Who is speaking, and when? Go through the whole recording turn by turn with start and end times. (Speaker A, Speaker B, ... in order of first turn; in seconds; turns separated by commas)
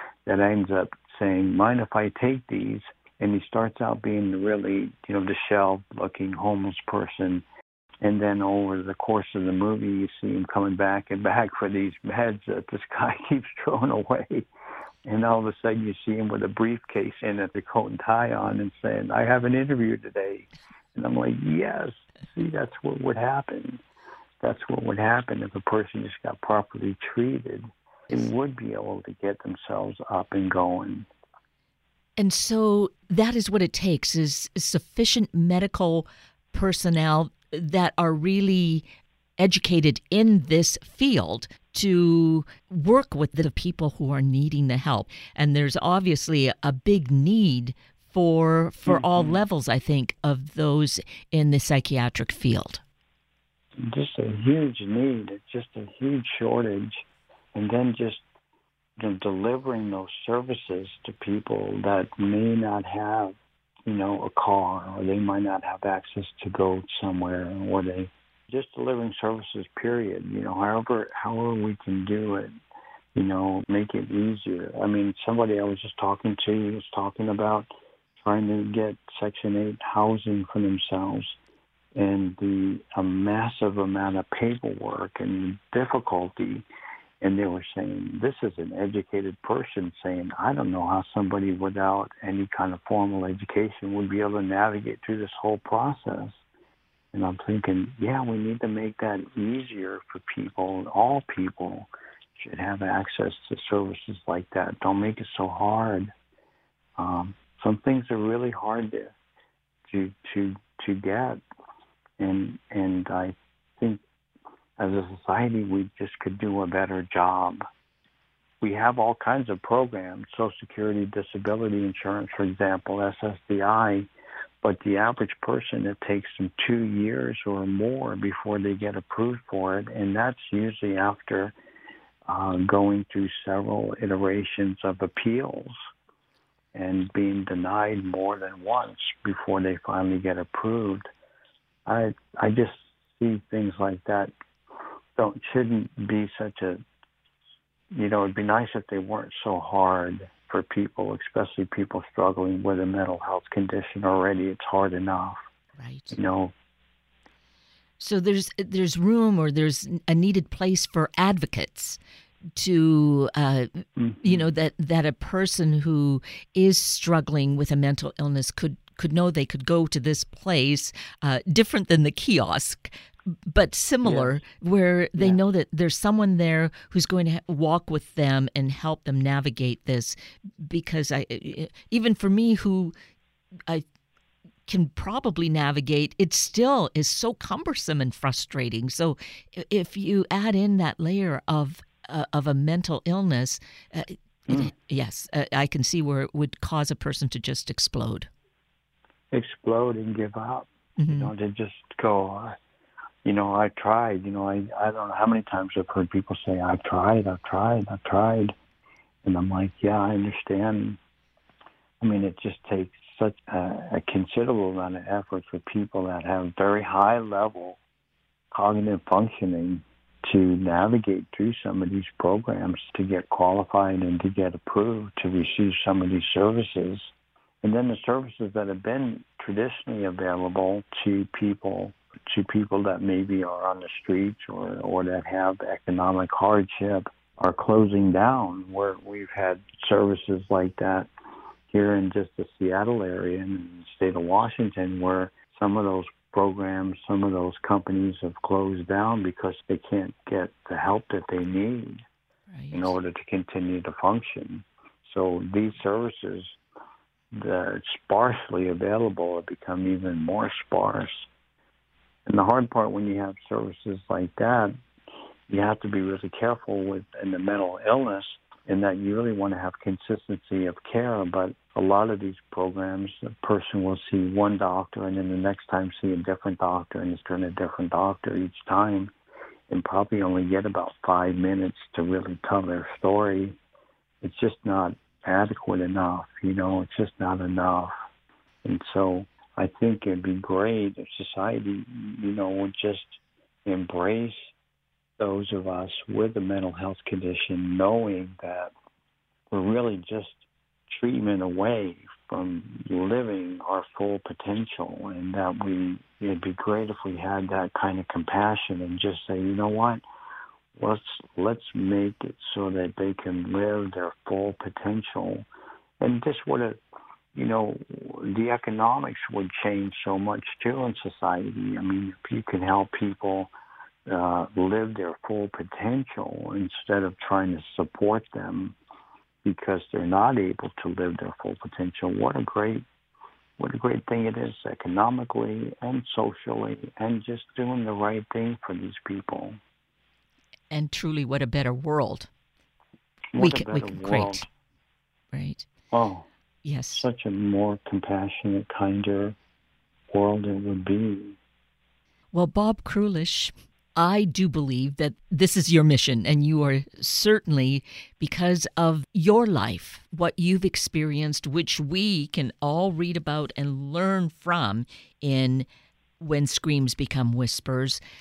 Speaker A: 0.2-7.4, Speaker A: 8.0-14.5, Speaker A: 15.0-23.8, Speaker A: 24.4-31.1, Speaker B: 32.2-38.8, Speaker B: 39.4-52.8, Speaker A: 48.9-49.4, Speaker A: 53.8-58.2, Speaker A: 59.0-72.5, Speaker A: 73.1-81.4, Speaker A: 82.0-86.7, Speaker A: 87.2-96.4, Speaker A: 97.1-106.1, Speaker A: 107.0-109.1, Speaker A: 109.9-111.4, Speaker A: 112.2-114.0, Speaker A: 114.8-117.6, Speaker A: 118.6-124.1, Speaker A: 124.6-131.5, Speaker A: 132.3-135.8, Speaker A: 136.7-141.0, Speaker A: 141.8-144.3, Speaker A: 145.2-146.8, Speaker A: 147.9-155.4, Speaker B: 155.8-156.2, Speaker A: 156.1-156.5, Speaker B: 158.0-162.0, Speaker B: 162.6-172.9, Speaker A: 164.0-164.5, Speaker B: 173.5-182.9, Speaker A: 174.0-174.4, Speaker B: 184.7-198.3, Speaker A: 199.3-202.6, Speaker B: 201.0-201.3, Speaker A: 203.2-208.5, Speaker A: 209.2-211.0, Speaker A: 212.0-217.8, Speaker A: 218.5-227.1, Speaker A: 227.6-241.1, Speaker A: 241.7-252.1, Speaker B: 252.5-252.9, Speaker A: 252.7-256.6, Speaker A: 257.3-261.3, Speaker A: 262.2-264.7, Speaker A: 265.5-279.1, Speaker A: 279.7-283.6, Speaker A: 284.2-287.9, Speaker A: 288.6-294.5, Speaker A: 295.2-298.7, Speaker A: 299.5-310.0, Speaker A: 310.7-315.4, Speaker A: 316.0-316.8, Speaker A: 317.3-323.5, Speaker A: 324.1-328.8, Speaker A: 329.4-332.9, Speaker A: 333.6-339.6, Speaker B: 340.7-342.3, Speaker A: 343.3-344.4, Speaker B: 343.4-344.4, Speaker B: 345.3-345.7, Speaker A: 345.9-346.3, Speaker B: 346.6-347.1, Speaker A: 346.9-349.4, Speaker A: 350.1-351.4, Speaker B: 352.3-365.7, Speaker B: 366.2-368.0